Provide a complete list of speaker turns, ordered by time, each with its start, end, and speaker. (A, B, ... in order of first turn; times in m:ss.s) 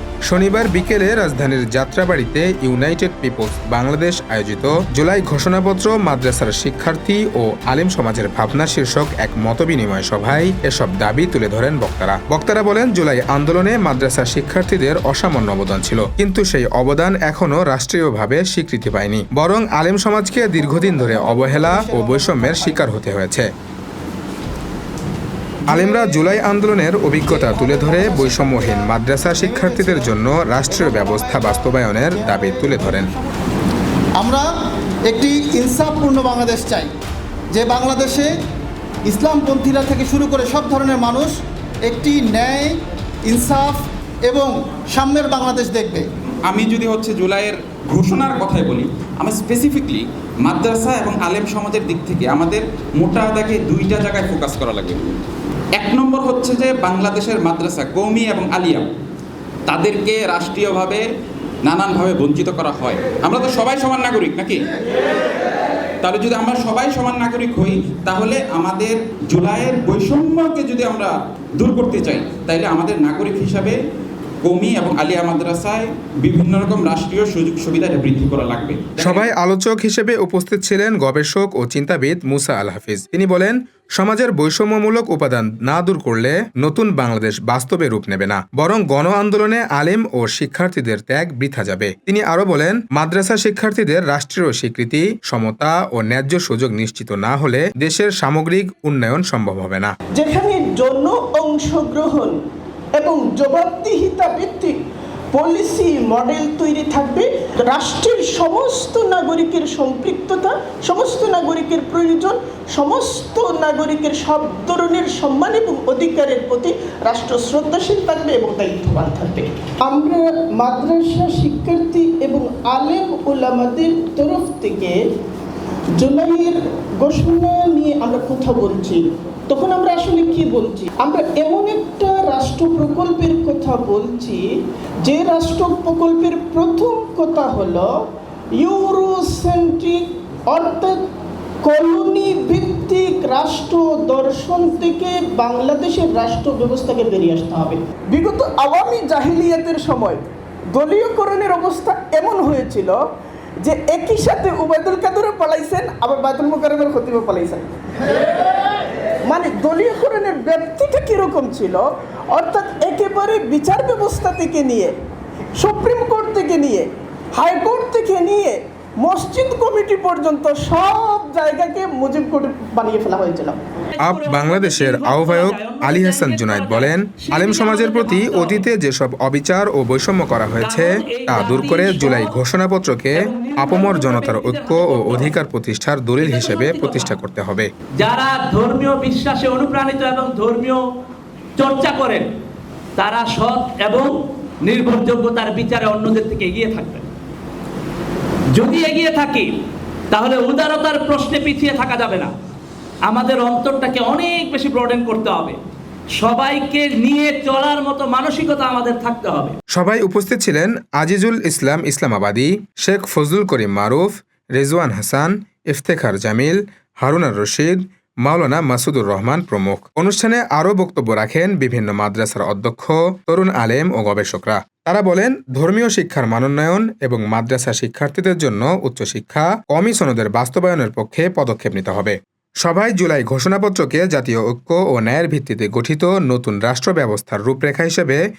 0:00.3-0:23.5 A
0:00.3-0:01.1 B
0:20.5-0:23.0 B
0:25.7-0:26.2 B
0:25.7-0:33.1 A
0:27.2-0:33.3 B
0:34.2-0:34.4 B
0:35.1-0:36.9 B
0:37.5-0:38.3 B
0:39.1-0:41.3 B
0:41.9-0:46.1 B
0:46.5-0:55.2 C
0:55.8-0:58.9 C
0:59.7-1:01.0 C
1:01.6-1:04.6 C
1:06.0-1:13.8 C
1:14.4-1:19.3 C
1:19.0-1:39.9 A
1:40.2-1:42.4 D
1:43.0-1:44.8 D
1:45.3-2:05.0 D
2:06.0-2:14.4 D
2:15.1-2:17.9 D
2:18.6-2:21.0 D
2:21.6-2:30.2 D
2:30.7-2:33.0 D
2:33.6-2:38.3 D
2:39.3-2:44.9 D
2:45.6-2:53.6 D
2:54.0-2:58.6 E
2:54.0-3:07.7 A
3:00.6-3:02.3 E
3:03.2-3:05.3 E
3:06.2-3:07.1 E
3:08.0-3:10.8 E
3:11.6-3:12.3 E
3:13.0-3:14.1 E
3:14.7-3:17.1 E
3:18.6-3:19.5 E
3:20.1-3:22.3 E
3:23.1-3:25.6 E
3:26.2-3:29.6 E
3:29.7-3:58.2 A